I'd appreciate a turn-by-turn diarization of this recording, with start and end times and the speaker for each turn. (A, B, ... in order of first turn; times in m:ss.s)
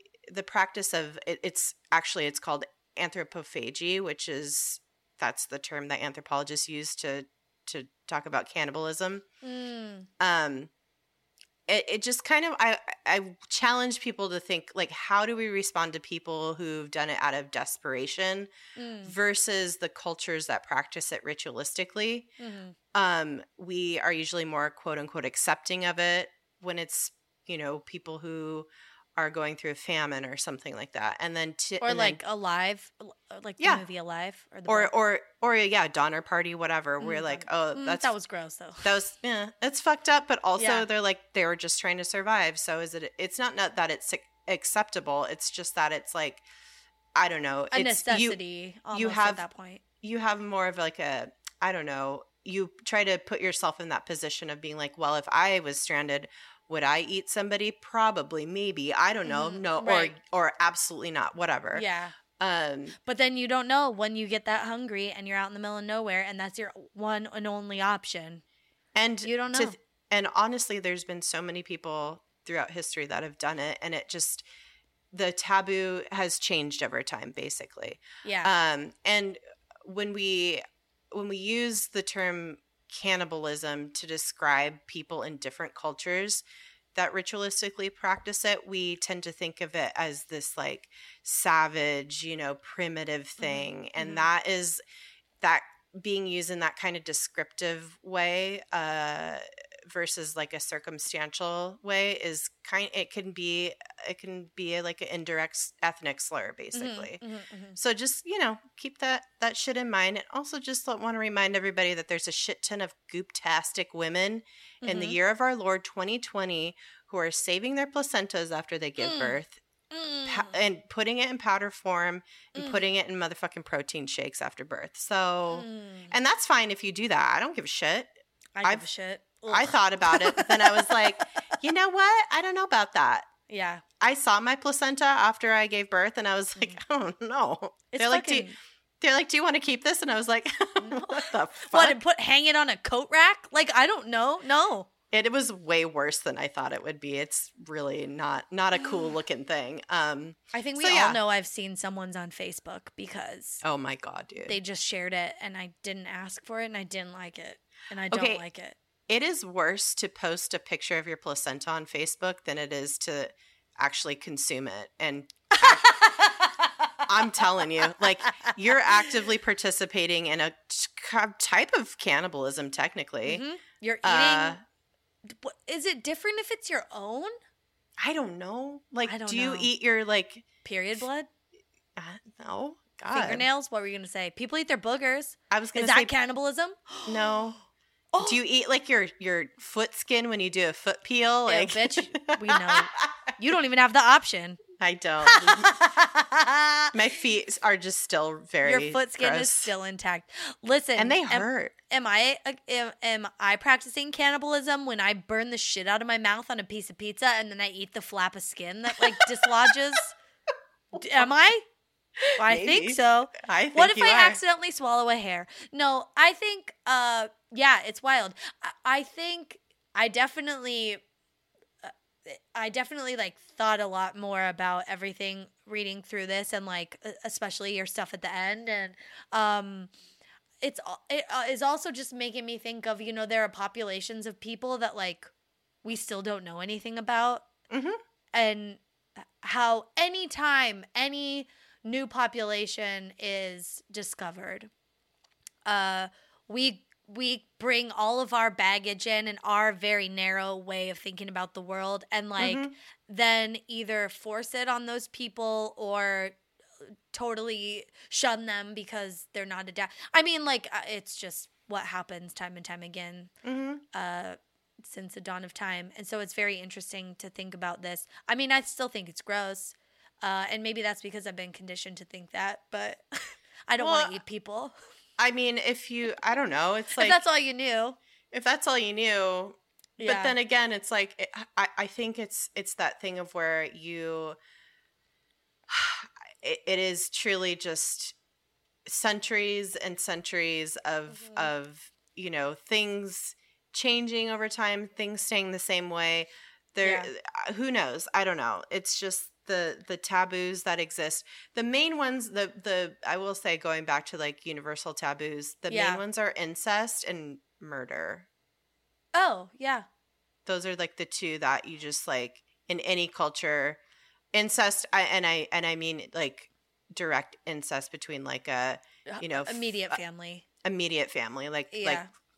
0:00.2-0:09.2 A
0:09.4-0:10.1 B
0:10.2-0:10.7 A
0:11.7-0:18.5 A
0:18.7-0:19.1 B
0:19.0-0:22.3 A
0:22.4-0:22.8 B
0:22.9-0:32.2 A
0:31.8-0:34.9 B
0:34.7-0:38.1 A
0:37.0-0:38.9 B
0:38.8-0:46.4 A
0:40.6-0:40.9 B
0:47.1-0:48.4 A
0:47.7-0:49.8 B
0:48.9-0:49.4 A
0:50.0-1:01.8 A
0:59.2-1:00.1 B
1:01.7-1:02.1 B
1:02.4-1:03.0 A
1:03.0-1:08.4 B
1:08.9-1:14.4 A
1:09.2-1:09.8 B
1:15.1-1:34.8 A
1:18.2-1:18.5 B
1:33.4-1:34.3 B
1:35.4-1:47.2 A
1:46.7-1:47.8 B
1:47.8-1:59.6 A
1:54.8-1:55.2 B
1:59.0-1:59.4 B
1:59.9-2:00.6 B
2:00.2-2:08.1 A
2:02.6-2:02.8 B
2:05.5-2:06.1 B
2:08.6-2:11.1 B
2:09.5-2:13.3 A
2:13.5-2:13.8 B
2:14.0-2:18.5 A
2:17.9-2:18.5 B
2:19.0-2:22.0 A
2:20.8-2:24.9 B
2:25.1-2:31.2 A
2:30.5-2:33.6 B
2:33.6-2:34.6 A
2:34.4-2:38.8 B
2:38.1-2:38.4 A
2:39.1-2:45.9 A
2:45.5-2:49.0 B
2:47.0-2:53.4 A
2:53.2-2:54.6 B
2:54.0-2:54.6 A
2:55.2-2:57.3 B
2:58.0-3:00.4 A
2:59.0-2:59.7 B
3:00.6-3:01.3 B
3:02.0-3:03.4 A
3:03.1-3:07.4 B
3:05.5-3:06.1 A
3:07.0-3:07.6 A
3:08.1-3:08.4 B
3:08.2-3:13.3 A
3:11.4-3:14.6 B
3:14.8-3:15.7 A
3:15.2-3:16.9 B
3:16.9-3:19.7 A
3:18.6-3:30.1 B
3:21.0-3:21.7 A
3:29.0-3:29.7 A
3:30.9-3:31.6 B
3:32.2-3:34.4 A
3:32.4-3:41.0 B
3:41.8-3:49.9 B
3:50.6-3:55.3 B
3:55.8-3:57.5 B
3:57.7-3:58.0 A
3:58.3-3:58.8 B
3:59.4-4:04.7 B
4:05.6-4:16.4 B
4:12.4-4:12.7 A
4:17.1-4:23.3 B
4:23.4-4:23.8 A
4:23.9-4:34.7 B
4:33.8-4:34.2 A
4:35.2-4:37.2 A
4:36.9-4:38.0 B
4:38.3-4:44.4 A
4:40.0-4:40.3 B
4:45.7-4:48.1 A
4:48.8-5:08.3 A
4:51.1-4:51.5 B
4:56.8-4:57.1 B
5:05.7-5:06.0 B
5:09.1-5:09.8 B
5:10.4-5:13.8 A
5:14.3-5:20.0 A
5:19.1-5:20.4 B
5:20.6-5:22.0 A
5:21.7-5:22.1 B